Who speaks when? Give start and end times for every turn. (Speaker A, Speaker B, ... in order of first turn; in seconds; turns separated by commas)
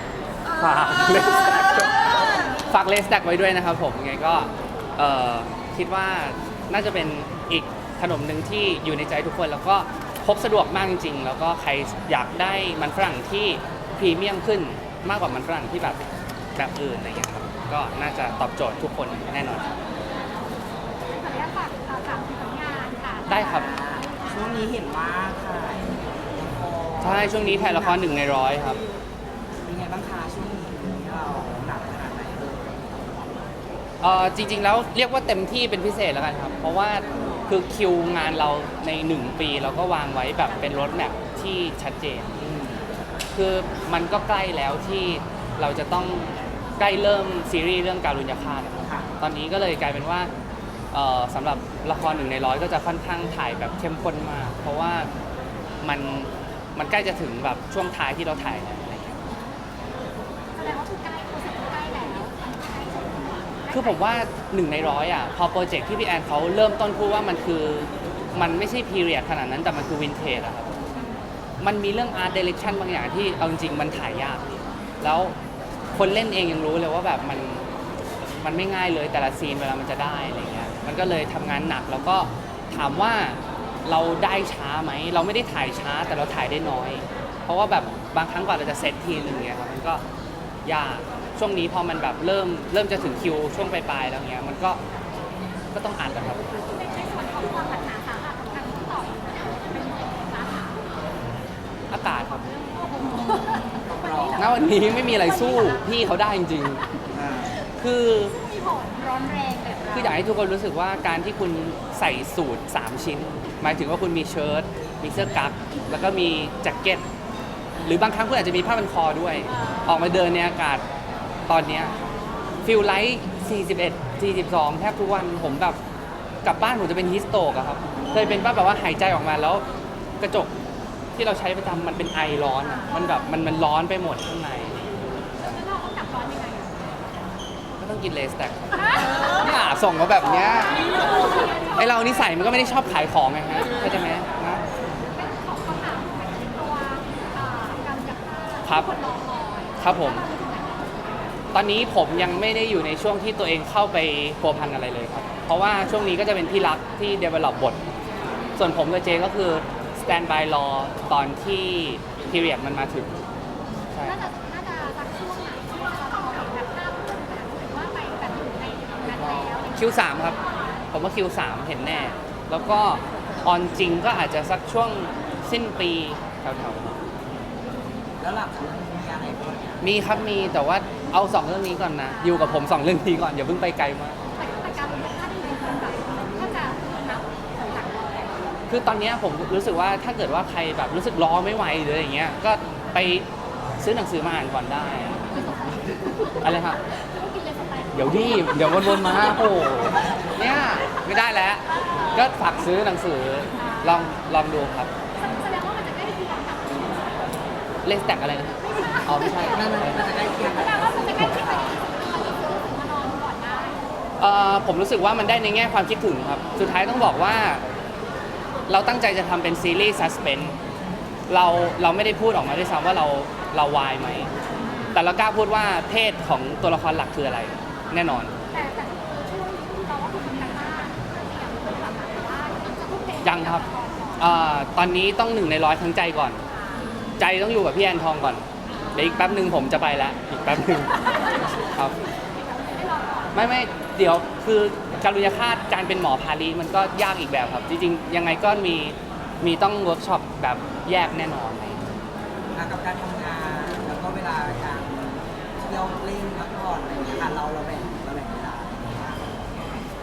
Speaker A: 0.5-19.8, Speaker B: 21.1-23.2, Speaker A: 23.3-23.7, Speaker C: 23.3-28.0, Speaker A: 27.0-28.8, Speaker C: 29.6-33.5, Speaker A: 34.0-42.4, Speaker C: 37.1-37.5, Speaker C: 42.4-42.8, Speaker A: 43.3-50.3, Speaker C: 48.8-49.1, Speaker A: 50.9-55.1, Speaker A: 55.8-59.2, Speaker B: 60.5-63.7, Speaker A: 63.7-70.7, Speaker A: 71.6-75.4, Speaker A: 75.9-77.7, Speaker A: 78.2-90.0, Speaker A: 90.7-94.8, Speaker A: 95.7-96.5, Speaker B: 96.6-101.0, Speaker A: 101.9-102.5, Speaker B: 102.6-103.7, Speaker C: 103.1-104.6, Speaker A: 104.3-106.8, Speaker C: 107.1-107.5, Speaker A: 107.8-108.4, Speaker B: 108.4-110.0, Speaker A: 109.9-117.0, Speaker A: 117.8-120.8, Speaker A: 121.5-122.0, Speaker A: 122.6-125.8, Speaker A: 126.4-129.6, Speaker A: 130.2-130.5, Speaker A: 131.1-134.8, Speaker B: 135.4-136.9, Speaker A: 137.8-141.1, Speaker A: 141.7-144.7, Speaker B: 145.1-151.0, Speaker A: 148.6-149.0, Speaker A: 149.8-150.3, Speaker A: 151.5-157.8, Speaker A: 158.6-163.2, Speaker A: 163.9-164.2, Speaker B: 164.1-169.6, Speaker C: 169.0-169.6, Speaker A: 169.7-170.4, Speaker A: 170.9-177.0, Speaker C: 178.2-179.8, Speaker A: 179.8-184.2, Speaker B: 184.4-188.4, Speaker A: 188.7-193.3, Speaker A: 193.8-195.5, Speaker A: 196.3-196.8, Speaker B: 197.1-197.9, Speaker A: 197.9-204.9, Speaker B: 205.2-207.3, Speaker A: 207.8-210.1, Speaker C: 209.3-211.8, Speaker B: 210.8-213.8, Speaker A: 214.2-217.6, Speaker A: 218.7-220.6, Speaker A: 221.3-224.3, Speaker A: 224.9-228.3, Speaker B: 228.5-234.2, Speaker A: 233.2-233.7, Speaker A: 234.2-236.4, Speaker A: 237.2-242.0, Speaker B: 242.6-243.3, Speaker A: 243.3-251.8, Speaker C: 252.5-259.9